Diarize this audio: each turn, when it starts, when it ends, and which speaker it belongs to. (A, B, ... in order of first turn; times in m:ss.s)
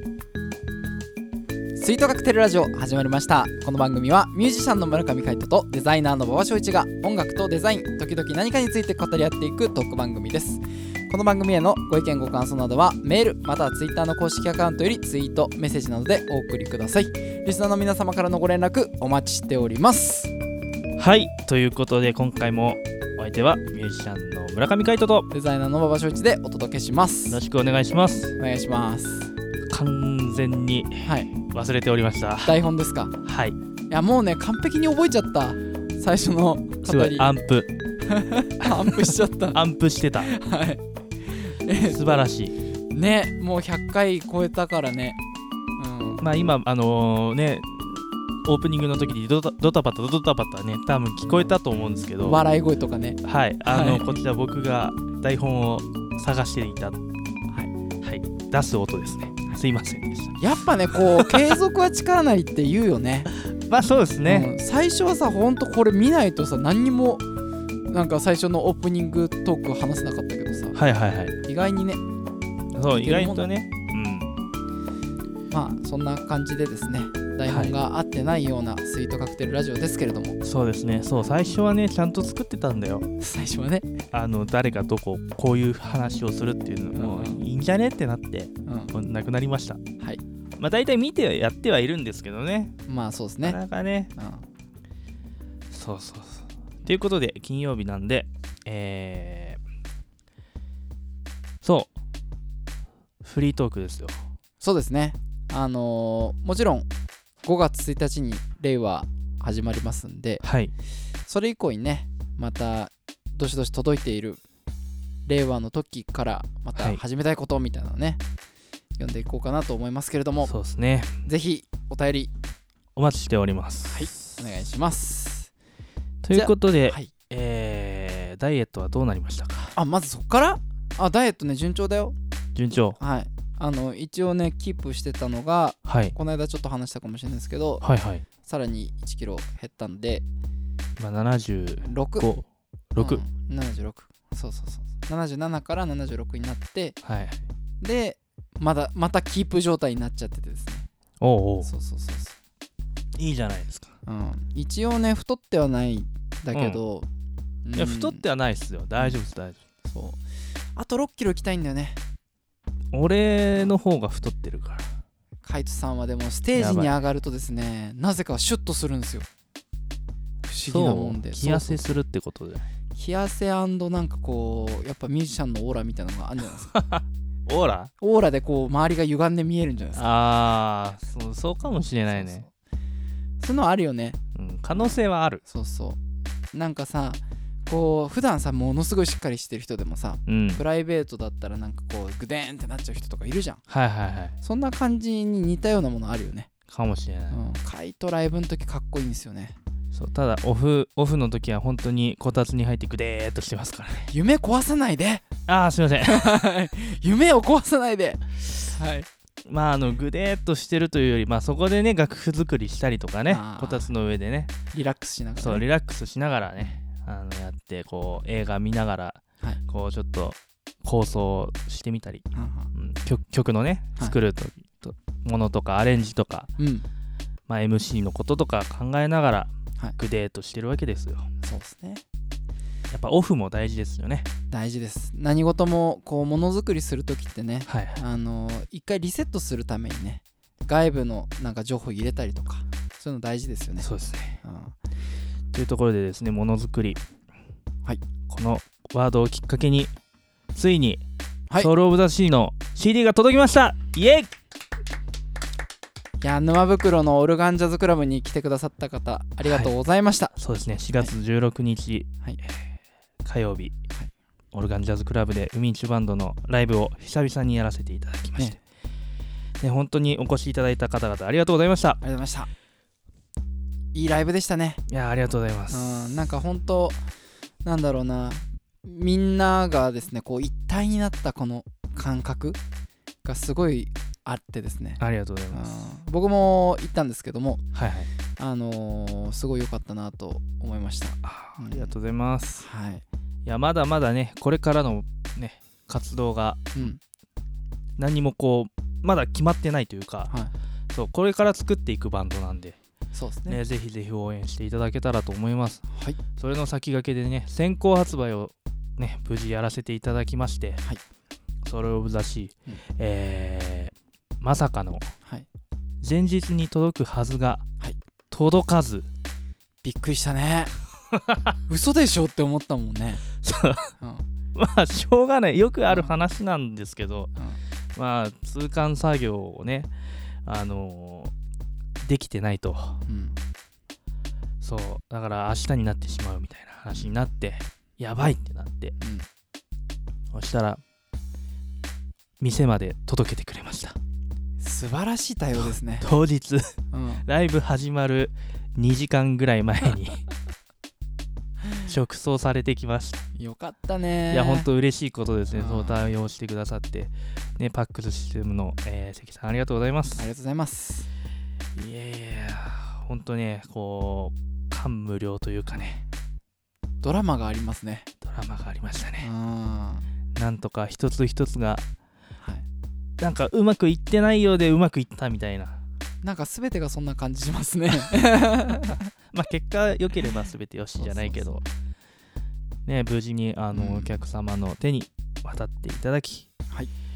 0:01.8-0:20.3 A
0:21.0-0:25.3 B
0:25.3-0:27.4 A
0:27.3-0:28.3 B
0:28.4-0:29.3 A
0:29.7-0:32.6 B
0:31.0-0:31.3 A
0:32.4-0:33.2 A
0:33.2-0:33.6 B
0:33.9-0:37.3 A
0:36.8-0:37.7 B
0:38.0-0:39.6 A
0:38.6-0:40.3 B
0:40.2-0:42.2 A
0:41.8-0:42.6 B
0:42.9-0:45.2 A
0:45.8-0:46.2 A
0:46.2-0:52.4 B
0:52.2-0:54.1 A
0:53.2-0:57.0 B
0:58.0-1:00.4 B
1:00.4-1:03.3 A
1:00.9-1:01.5 B
1:03.5-1:04.5 B
1:04.2-1:07.2 A
1:07.9-1:10.8 A
1:10.7-1:11.4 B
1:11.4-1:12.0 A
1:12.7-1:14.3 B
1:12.9-1:13.5 A
1:15.5-1:20.4 A
1:17.5-1:17.7 B
1:20.4-1:23.1 B
1:23.2-1:24.0 A
1:24.1-1:29.8 B
1:26.9-1:27.4 A
1:28.6-1:28.9 A
1:30.6-1:32.7 B
1:32.9-1:33.6 A
1:33.4-1:34.1 B
1:34.1-1:34.4 A
1:35.7-1:39.6 B
1:41.6-1:41.9 B
1:43.2-1:44.2 B
1:44.6-1:46.9 A
1:47.4-1:50.4 A
1:50.4-1:50.7 B
1:51.2-1:54.4 A
1:55.2-1:58.2 A
1:59.0-2:00.5 A
2:00.4-2:01.2 B
2:01.2-2:02.3 A
2:03.0-2:04.2 B
2:03.9-2:05.5 A
2:06.2-2:09.8 B
2:06.3-2:07.1 A
2:09.7-2:12.2 A
2:12.5-2:13.0 B
2:12.9-2:17.8 A
2:15.8-2:16.2 B
2:17.8-2:18.2 B
2:18.4-2:20.2 A
2:21.0-2:23.2 B
2:21.8-2:22.3 A
2:23.0-2:27.0 A
2:27.0-2:27.4 B
2:27.8-2:30.9 A
2:31.2-2:31.7 B
2:31.6-2:32.3 A
2:33.2-2:33.9 B
2:34.0-2:37.1 A
2:36.5-2:36.8 B
2:37.6-2:38.2 A
2:37.7-2:39.6 B
2:39.8-2:40.2 A
2:40.7-2:42.0 A
2:42.9-2:44.9 B
2:45.4-2:49.3 A
2:46.5-2:47.0 B
2:50.4-2:52.0 A
2:50.6-2:52.6 B
2:52.9-2:56.7 A
2:56.8-2:57.9 B
2:58.0-3:00.1 A
2:59.9-3:02.4 B
3:01.6-3:02.5 A
3:03.4-3:04.2 A
3:04.3-3:05.4 B
3:04.7-3:06.0 A
3:06.5-3:13.6 A
3:10.3-3:10.6 B
3:13.7-3:14.3 B
3:14.4-3:16.5 A
3:16.7-3:17.4 B
3:17.3-3:19.6 A
3:19.9-3:24.1 B
3:24.1-3:25.3 A
3:25.5-3:26.4 B
3:26.0-3:29.1 A
3:29.4-3:34.5 B
3:33.3-3:33.9 A
3:34.7-3:35.6 A
3:35.4-3:46.5 B
3:42.3-3:42.7 A
3:46.6-3:46.9 A
3:47.5-3:51.3 B
3:51.4-3:52.0 A
3:52.9-3:54.3 B
3:54.5-4:03.9 A
3:57.6-3:58.0 B
4:03.8-4:04.4 B
4:04.4-4:04.8 A
4:05.5-4:07.0 B
4:08.3-4:09.9 B
4:10.5-4:11.0 B
4:11.6-4:14.3 B
4:16.2-4:20.3 A
4:19.4-4:19.7 B
4:20.3-4:22.1 B
4:23.2-4:23.7 B
4:24.5-4:28.6 B
4:29.6-4:32.0 B
4:32.0-4:32.5 A
4:33.9-4:34.8 A
4:34.9-4:36.2 B
4:35.7-4:37.0 A
4:37.6-4:42.6 A
4:43.2-4:47.6 A
4:45.0-4:45.7 B
4:47.7-4:48.1 B
4:48.4-4:51.9 A
4:51.2-4:52.6 B
4:52.6-4:53.0 A
4:53.4-4:56.9 B
4:58.0-5:00.3 B
5:00.9-5:02.8 B
5:03.1-5:03.6 A
5:03.5-5:05.8 B
5:05.9-5:06.2 A
5:06.4-5:10.8 B
5:11.6-5:15.1 B
5:16.0-5:17.6 B
5:18.3-5:19.1 B
5:19.8-5:20.7 A
5:21.1-5:21.4 B
5:21.7-5:23.2 A
5:23.4-5:23.9 B
5:24.0-5:24.2 A
5:24.5-5:27.3 B
5:27.9-5:29.9 B
5:30.4-5:31.3 B
5:32.0-5:33.0 B
5:33.0-5:33.4 A
5:34.6-5:38.9 B
5:39.0-5:39.3 A
5:40.3-5:40.8 B
5:42.4-5:44.0 B
5:44.6-5:46.0 A
5:45.6-5:46.7 B
5:46.9-5:47.2 A
5:47.2-5:50.2 B
5:51.8-5:53.2 B
5:53.3-5:54.7 A
5:54.3-6:00.3 B
5:55.5-5:56.0 A
6:00.2-6:01.1 A
6:01.7-6:06.0 B
6:07.0-6:08.1 A
6:08.2-6:09.3 B
6:09.2-6:10.1 A
6:10.3-6:11.8 B
6:12.4-6:12.6 A
6:13.2-6:15.8 B
6:16.2-6:19.0 A
6:19.3-6:21.6 B
6:21.0-6:21.6 A
6:22.8-6:26.5 B
6:23.7-6:24.2 A